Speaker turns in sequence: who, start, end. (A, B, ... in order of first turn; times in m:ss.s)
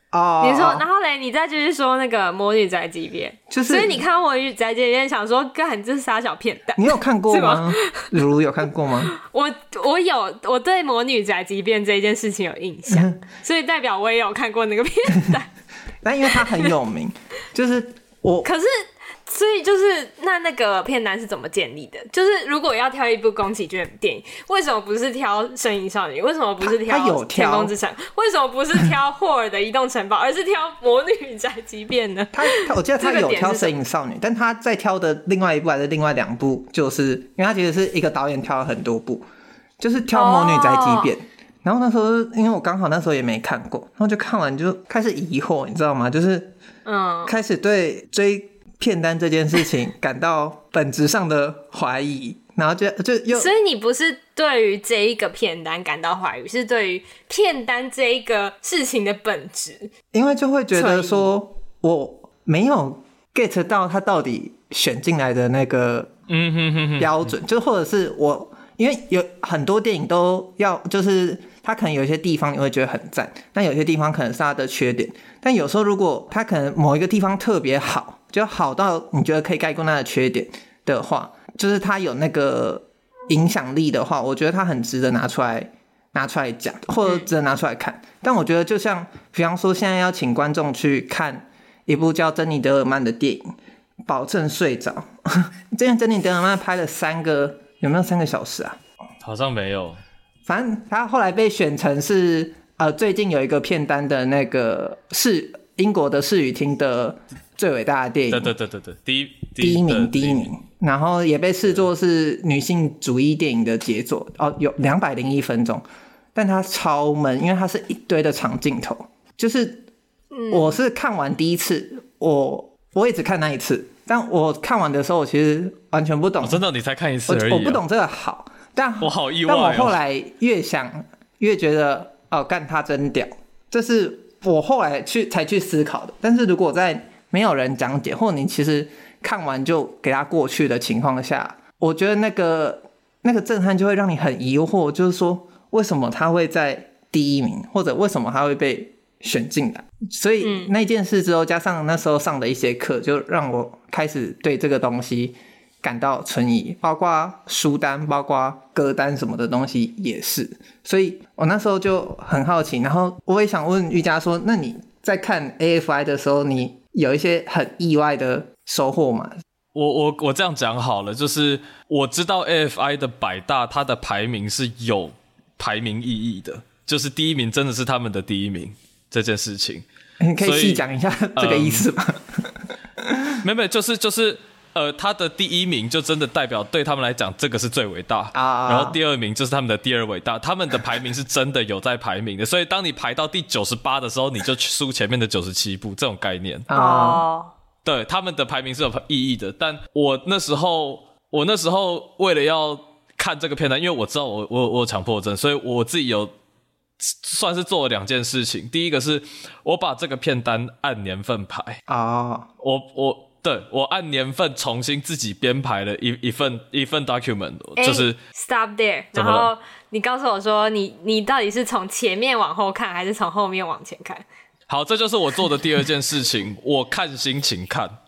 0:00.1-0:00.8 A
0:00.4-0:08.1 B
0:03.5-0:04.0 A
0:06.8-0:09.1 A
0:09.1-0:15.5 B
0:12.9-0:13.1 A
0:16.0-0:18.5 A
0:16.3-0:16.7 B
0:18.4-0:33.7 B
0:26.6-0:27.7 A
0:32.3-0:39.3 A
0:39.8-0:46.6 A
0:40.1-0:41.1 B
0:46.9-0:47.4 B
0:47.3-0:53.5 A
0:53.3-0:59.9 B
1:00.1-1:06.1 A
1:00.8-1:01.3 B
1:06.3-1:07.1 C
1:07.0-1:33.5 A
1:34.1-1:38.8 A
1:39.2-1:40.0 C
1:40.5-1:48.5 A
1:48.3-1:50.5 C
1:49.6-1:55.8 A
1:56.4-1:59.8 A
2:00.3-2:00.7 B
2:00.5-2:06.6 A
2:06.4-2:07.8 C
2:07.3-2:49.3 A
2:09.0-2:10.0 C
2:30.4-2:30.7 B
2:49.7-2:59.8 C
3:00.2-3:03.4 A
3:00.4-3:00.8 C
3:01.4-3:01.9 C
3:03.4-3:16.7 C
3:08.3-3:09.0 A
3:16.7-3:17.2 A
3:16.7-3:17.5 B
3:17.8-3:26.3 C
3:27.0-3:31.8 C
3:31.9-3:32.5 A
3:32.6-3:38.2 C
3:37.8-3:44.2 B
3:39.1-3:39.5 C
3:44.7-3:47.9 C